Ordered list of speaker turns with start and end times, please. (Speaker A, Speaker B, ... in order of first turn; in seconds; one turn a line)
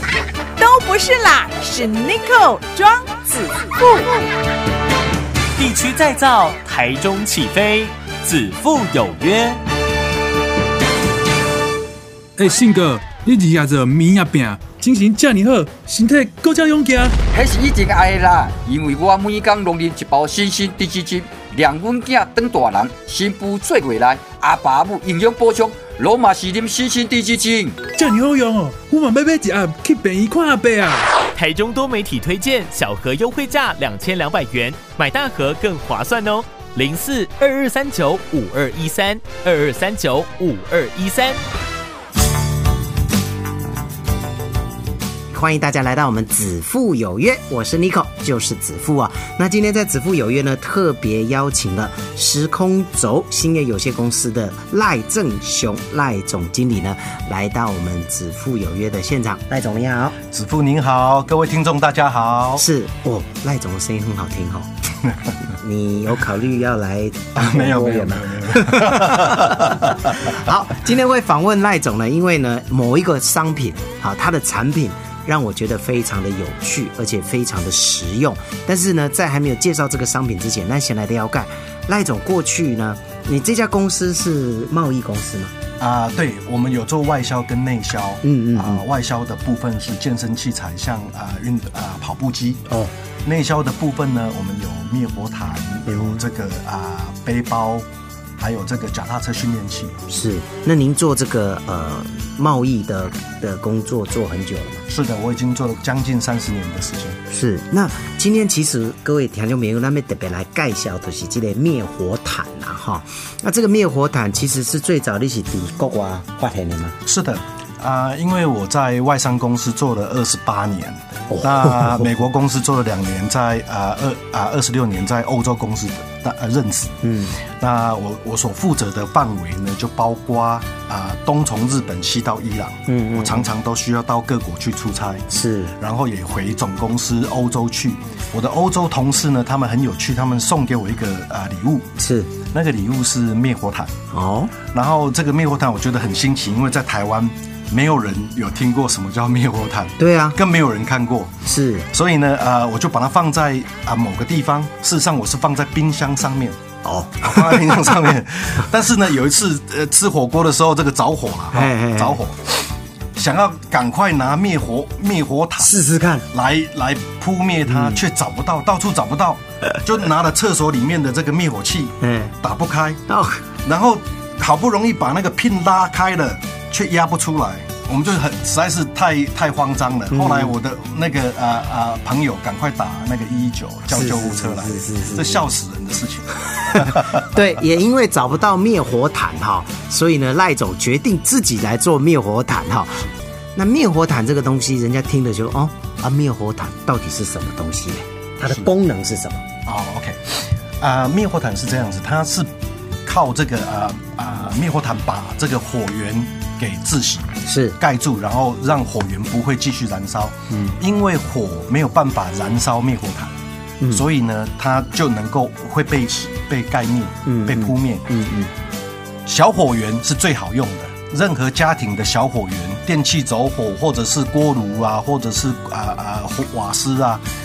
Speaker A: 0.6-3.0
Speaker B: 5.6-9.6
Speaker C: 12.4-17.2
Speaker D: 17.3-27.8
Speaker C: 27.9-31.1
Speaker B: 31.4-41.4
Speaker E: 45.3-60.2
Speaker F: 60.3-62.6
Speaker E: 62.6-64.7
Speaker E: 65.5-85.5
Speaker F: 67.3-69.9
Speaker F: 85.8-92.6
Speaker E: 88.2-88.8
Speaker F: 93.2-97.9
Speaker E: 95.9-96.2
Speaker F: 98.4-100.0
Speaker E: 100.1-104.8
Speaker F: 104.9-107.2
Speaker E: 107.3-117.0
Speaker F: 117.0-127.0
Speaker E: 121.3-122.2
Speaker E: 127.0-127.4
Speaker F: 127.6-135.3
Speaker E: 132.9-133.5
Speaker E: 135.3-135.7
Speaker F: 135.8-141.9
Speaker E: 142.0-142.3
Speaker F: 142.5-143.9
Speaker E: 144.1-144.5
Speaker F: 144.7-151.3
Speaker E: 150.0-150.4
Speaker E: 151.4-151.9
Speaker F: 151.9-156.6
Speaker E: 156.8-158.0
Speaker F: 157.2-162.4
Speaker E: 161.5-162.2
Speaker F: 163.2-165.7
Speaker E: 165.6-166.3
Speaker F: 166.3-173.0
Speaker E: 167.7-168.0
Speaker E: 172.0-172.3
Speaker E: 173.1-173.4
Speaker F: 173.7-187.1
Speaker E: 180.1-180.6
Speaker E: 183.9-185.5
Speaker E: 186.6-199.4
Speaker F: 199.7-202.5
Speaker F: 203.1-213.3
Speaker E: 207.5-207.8
Speaker E: 213.8-214.1
Speaker F: 213.9-218.1
Speaker E: 217.3-218.5
Speaker F: 219.3-227.2